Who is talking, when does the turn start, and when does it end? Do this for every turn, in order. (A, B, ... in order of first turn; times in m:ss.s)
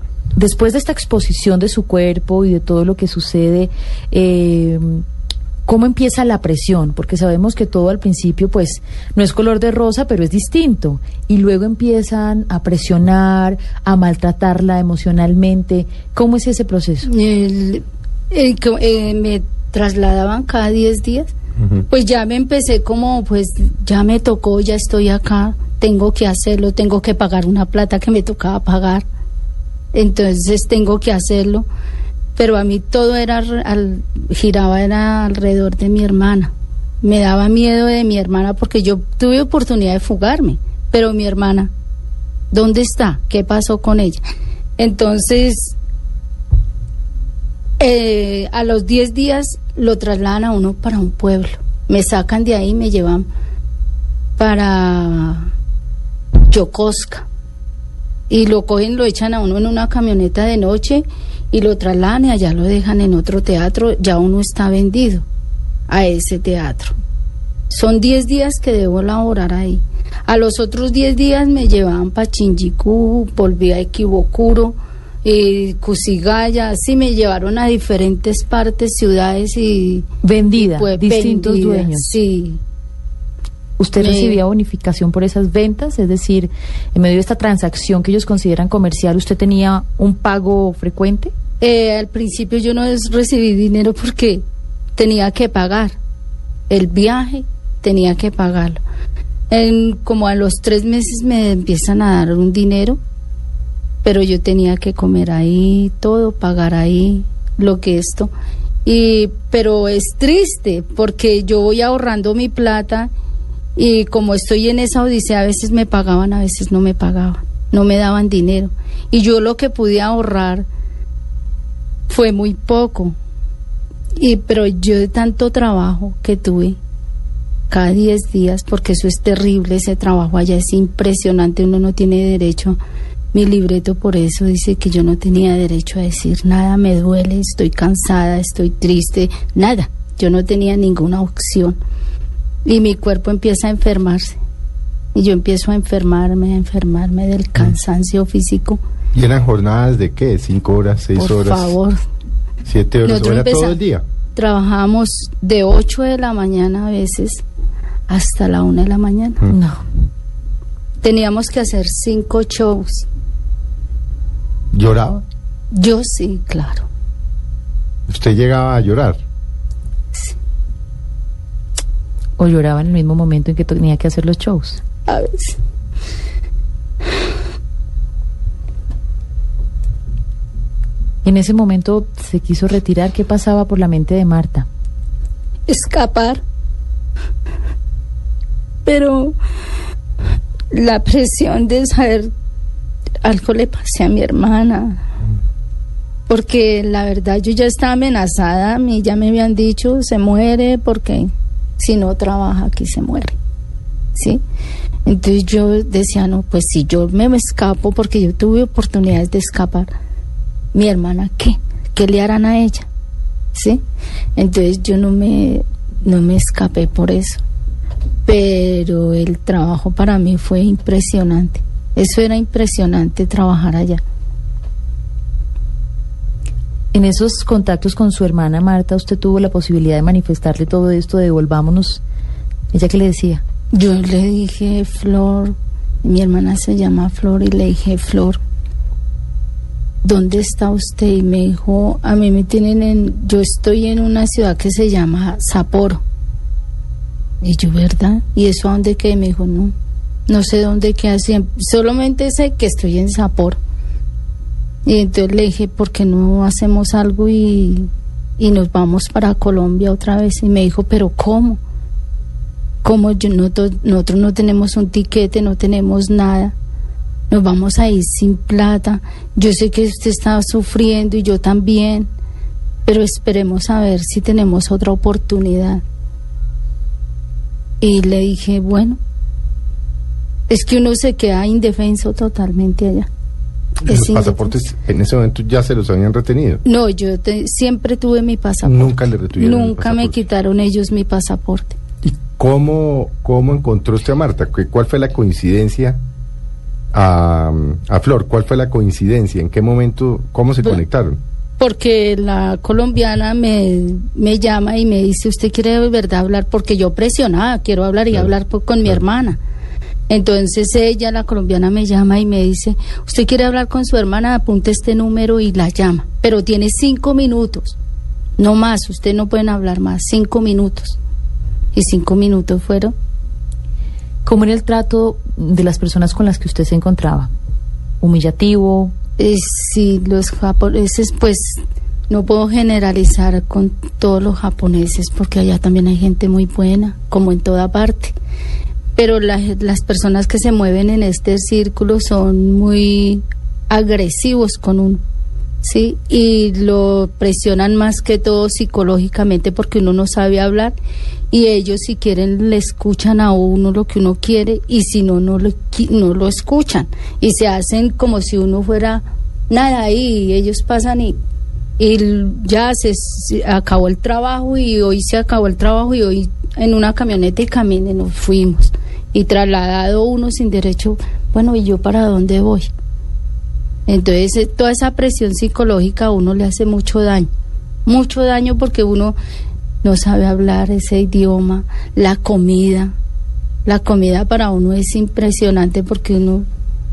0:00.4-0:05.0 A
0:05.6-0:17.1 A
0:17.0-0:21.3 B
0:21.9-0:29.0 B
0:29.9-0:31.7 B
0:32.4-0:41.7 B
0:42.5-0:44.2 B
0:44.8-0:45.8 B
0:47.8-0:53.3 B
0:54.4-0:55.5 B
0:56.5-0:57.3 B
0:58.3-1:05.2 B
1:05.9-1:07.0 B
1:07.7-1:22.6 B
1:20.2-1:22.1 A
1:23.8-1:31.3 A
1:24.0-1:24.4 B
1:31.6-1:34.4 B
1:35.0-1:36.0 B
1:36.7-1:38.8 B
1:39.5-1:43.0 B
1:44.0-1:48.3 B
1:48.8-1:53.1 B
1:53.8-2:00.6 B
2:02.1-2:03.2 B
2:04.2-2:06.8 B
2:07.7-2:12.8 B
2:13.3-2:21.8 B
2:22.6-2:24.4 B
2:25.1-2:28.8 B
2:29.1-2:31.7 C
2:31.2-2:32.0 B
2:32.6-2:34.0 C
2:33.0-2:33.8 B
2:34.3-2:37.4 B
2:38.1-2:39.4 B
2:39.5-2:39.8 A
2:41.0-2:43.1 B
2:44.7-2:45.2 C
2:45.7-2:46.9 B
2:48.1-2:49.2 C
2:52.4-2:54.8 A
2:55.1-2:55.6 B
3:01.2-3:04.7 A
3:05.7-3:06.4 B
3:08.8-3:09.4 B
3:10.7-3:12.3 B
3:13.2-3:15.0 B
3:16.3-3:23.4 B
3:24.1-3:24.4 B
3:25.0-3:29.9 B
3:30.7-3:32.9 B
3:33.5-3:33.8 B
3:34.4-3:37.4 B
3:38.2-3:44.0 B
3:46.9-3:52.0 A
3:52.7-3:53.4 A
3:53.7-3:58.4 B
4:00.0-4:06.0 B
4:07.4-4:09.7 B
4:10.3-4:13.6 B
4:14.8-4:21.6 B
4:22.8-4:26.5 B
4:27.3-4:32.1 B
4:32.8-4:35.8 B
4:37.8-4:39.0 B
4:40.5-4:43.1 B
4:43.8-4:44.5 B
4:43.8-4:46.6 C
4:46.6-4:51.8 B
4:48.6-4:50.2 C
4:52.0-4:56.0 C
4:56.9-5:01.2 C
5:01.6-5:09.4 B
5:10.1-5:17.8 B
5:18.4-5:21.0 B
5:21.7-5:22.9 B
5:24.2-5:27.3 A
5:28.0-5:28.9 A
5:29.2-5:38.2 B
5:39.0-5:45.0 B
5:45.6-5:50.8 B
5:51.3-6:01.2 B
6:01.8-6:12.7 B
6:13.9-6:17.3 B
6:17.8-6:19.2 B
6:19.8-6:23.0 B
6:23.6-6:26.5 B